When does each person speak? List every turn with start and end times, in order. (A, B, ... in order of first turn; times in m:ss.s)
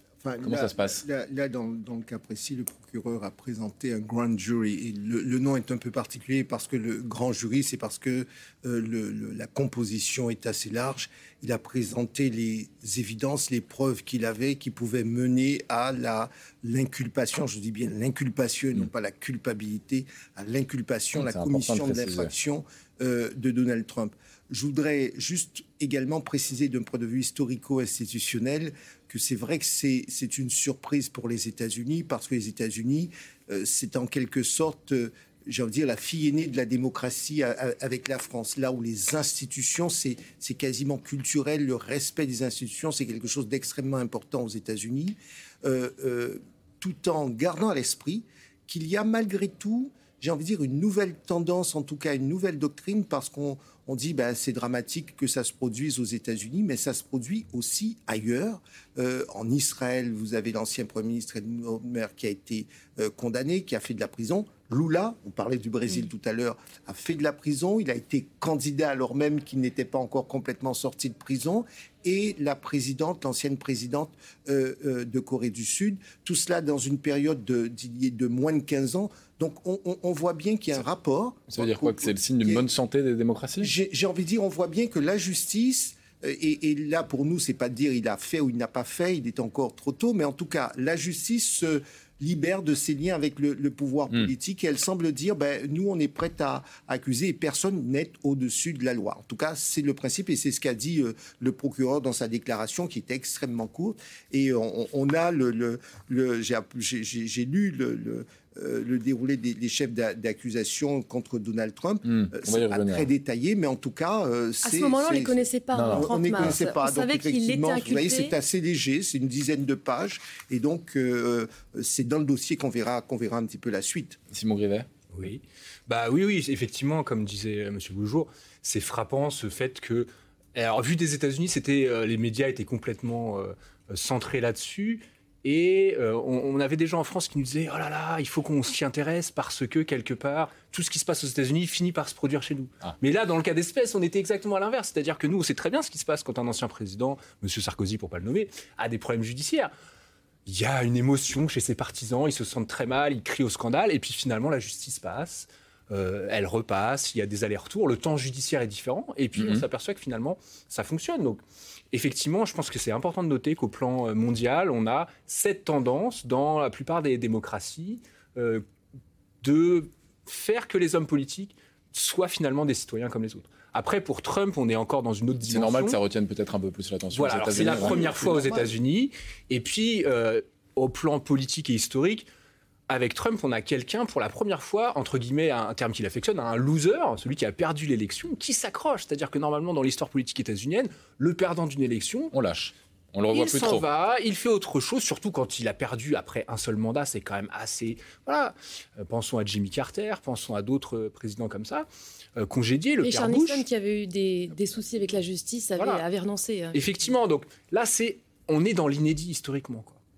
0:00.2-1:22.7 A
0:00.4-0:01.0 B
0:21.2-0:22.3 B
1:21.5-1:23.7 B
1:23.6-2:04.2 A
1:52.1-1:53.1 B
1:54.6-1:58.3 C
1:55.7-1:56.5 B
2:04.3-2:04.9 B
2:05.1-2:29.7 D
2:30.5-2:48.6 D
2:39.4-2:39.6 B
2:49.4-2:56.0 D
2:55.4-2:58.4 B
2:57.2-3:02.3 D
2:57.6-2:58.6 A
3:02.9-3:12.3 D
3:12.3-3:13.9 B
3:13.3-3:23.7 D
3:23.0-3:26.8 C
3:26.7-3:30.0 D